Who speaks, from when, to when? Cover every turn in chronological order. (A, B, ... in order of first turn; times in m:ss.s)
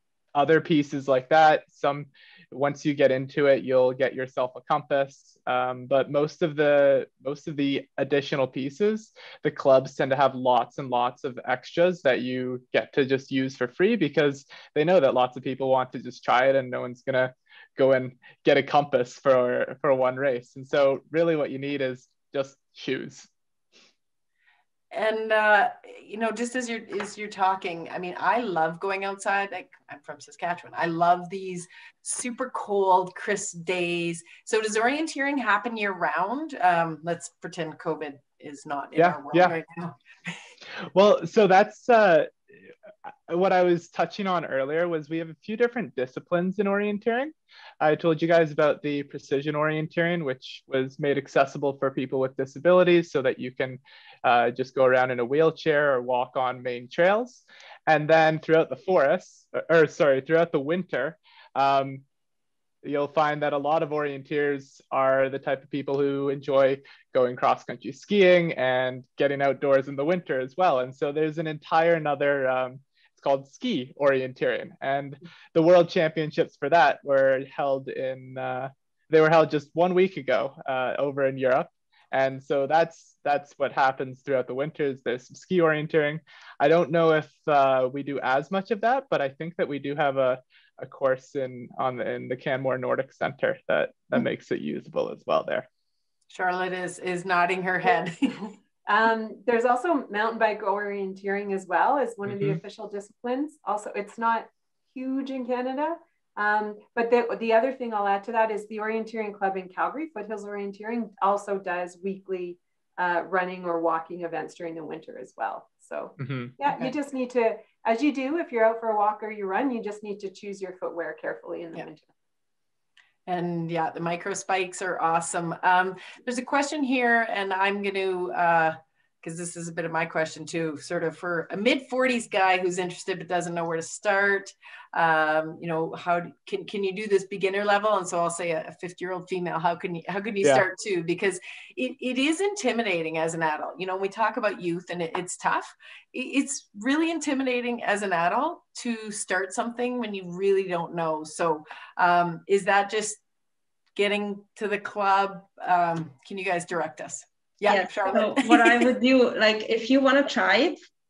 0:00.3-0:23.3 A
0:24.9-0:40.4 B
0:39.0-0:39.5 A
0:40.9-0:42.3 A
0:43.3-1:02.0 A
1:02.8-1:35.6 A
1:36.3-1:38.5 B
1:38.9-2:02.1 C
1:42.2-1:42.6 A
1:56.2-1:56.5 A
2:03.3-2:33.2 B
2:33.9-2:38.9 B
2:37.7-2:40.8 D